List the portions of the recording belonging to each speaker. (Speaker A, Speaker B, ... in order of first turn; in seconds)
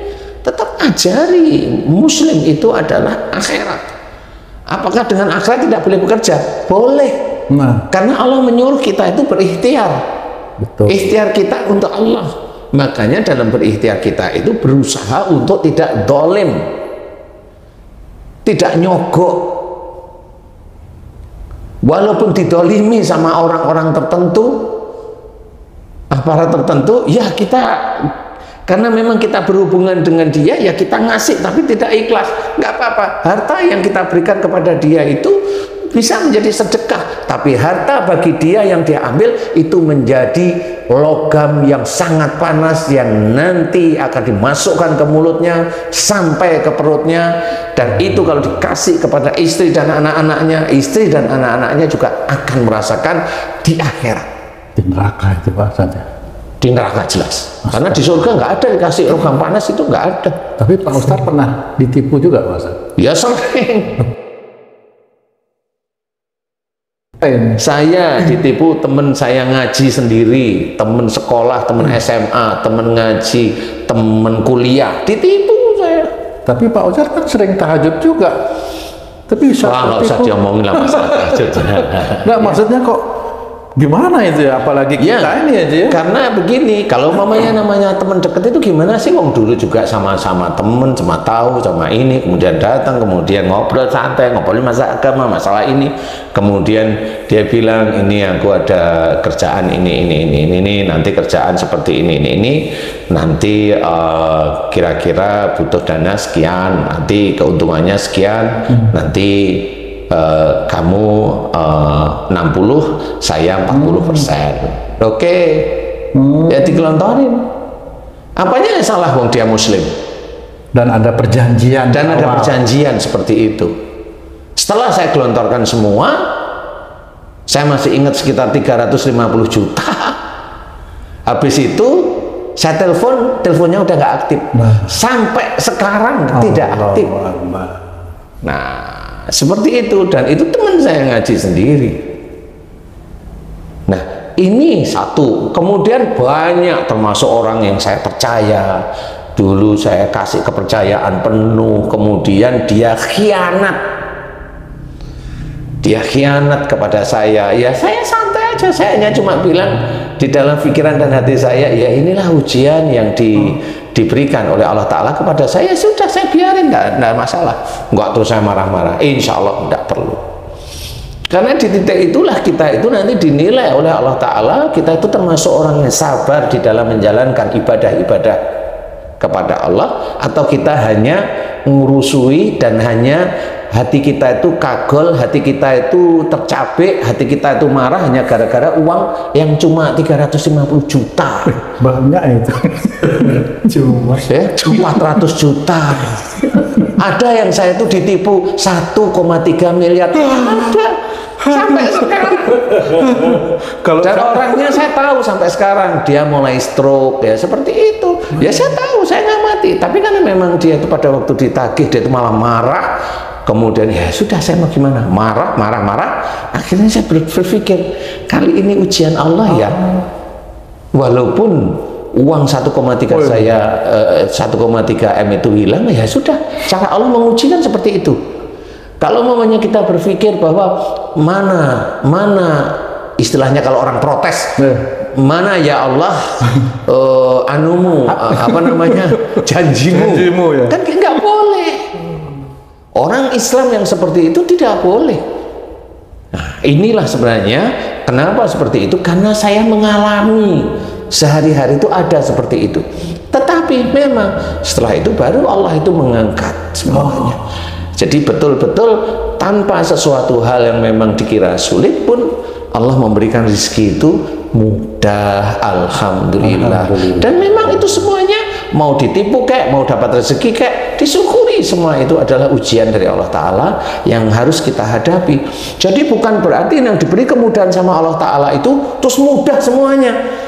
Speaker A: 0.4-4.0, 4.7-7.2, 7.9-10.0, 10.9-16.6, 18.5-19.6, 21.8-24.7, 26.1-28.1, 28.7-54.3, 56.6-60.4, 63.0-64.0, 67.6-76.1, 79.6-82.5, 85.0-85.4, 85.9-115.9, 116.5-117.5, 118.4-119.9, 121.9-123.7, 124.6-126.3, 127.5-130.2, 131.3-137.1, 138.4-142.1, 143.9-148.8, 149.4-153.8, 155.8-170.2, 171.3-178.4, 179.2-191.6, 194.2-201.0, 201.5-203.2, 204.0-212.9, 213.5-219.8, 220.9-228.2, 229.0-234.6, 235.1-241.9, 243.0-245.2, 246.3-257.4, 257.9-280.2
Speaker B: 7.5-7.8, 10.6-11.0, 54.8-56.1, 57.7-57.9, 60.6-62.8, 67.2-67.6, 76.5-78.4, 79.3-83.0, 83.8-86.0, 113.7-114.2, 116.1-116.8, 120.7-122.6, 134.6-134.9, 136.3-137.9, 191.5-194.2, 196.4-196.9, 200.3-200.8, 201.4-204.8, 219.6-220.0, 223.1-223.5, 234.6-234.9, 238.1-239.4, 239.9-240.8, 256.9-257.4, 266.4-267.5